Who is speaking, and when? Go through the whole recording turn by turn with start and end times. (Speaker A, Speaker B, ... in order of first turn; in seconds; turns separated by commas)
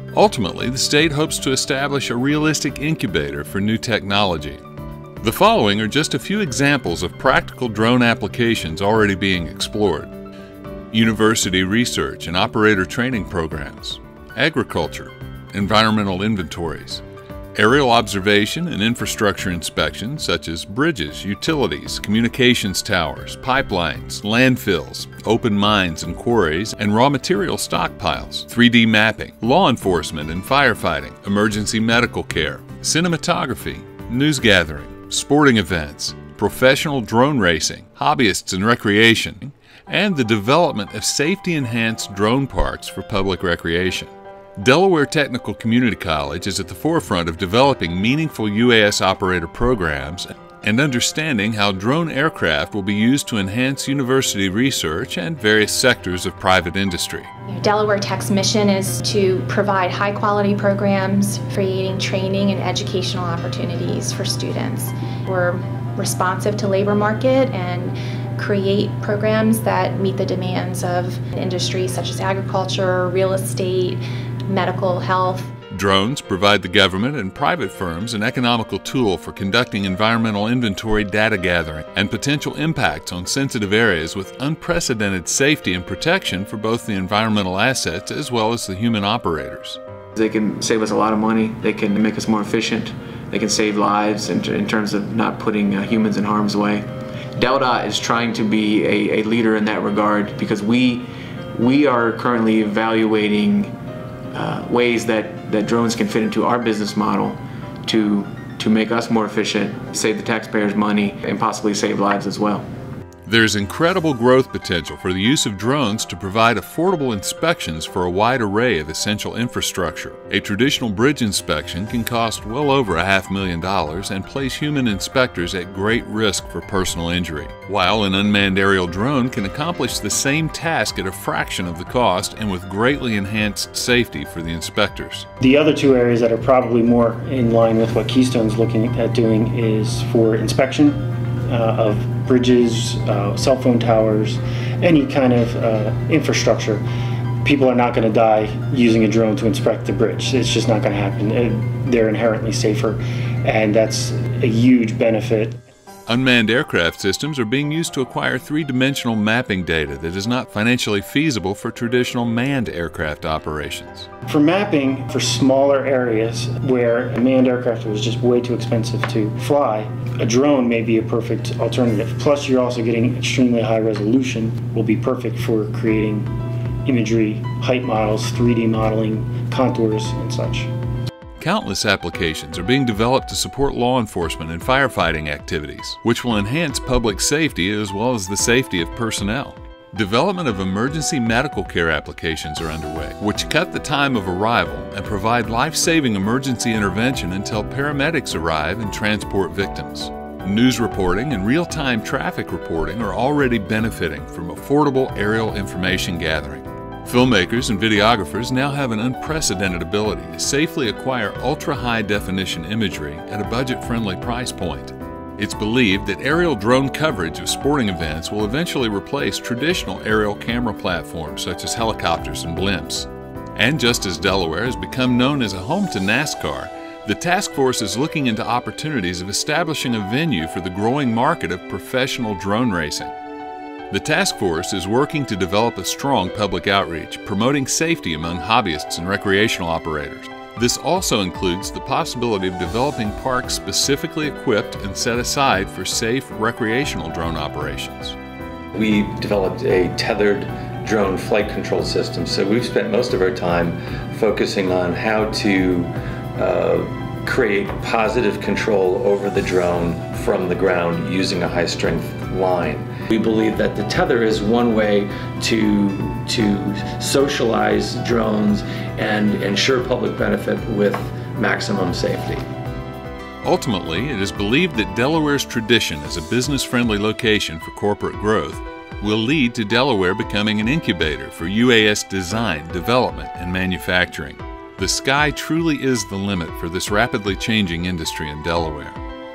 Speaker A: 0.1-4.6, Speaker A: 5.2-10.1, Speaker A: 10.9-17.0, Speaker A: 17.6-57.3, Speaker B: 57.5-75.5, Speaker A: 75.7-89.8, Speaker C: 90.2-96.9, Speaker C: 97.4-103.7, Speaker C: 104.3-112.6, Speaker A: 113.3-135.3, Speaker D: 135.4-146.8, Speaker D: 147.4-155.6, Speaker A: 156.1-164.1, Speaker D: 164.3-176.3, Speaker D: 176.8-180.7, Speaker A: 181.4-233.1, Speaker A: 233.9-248.2, Speaker E: 248.8-272.4, Speaker A: 273.4-289.0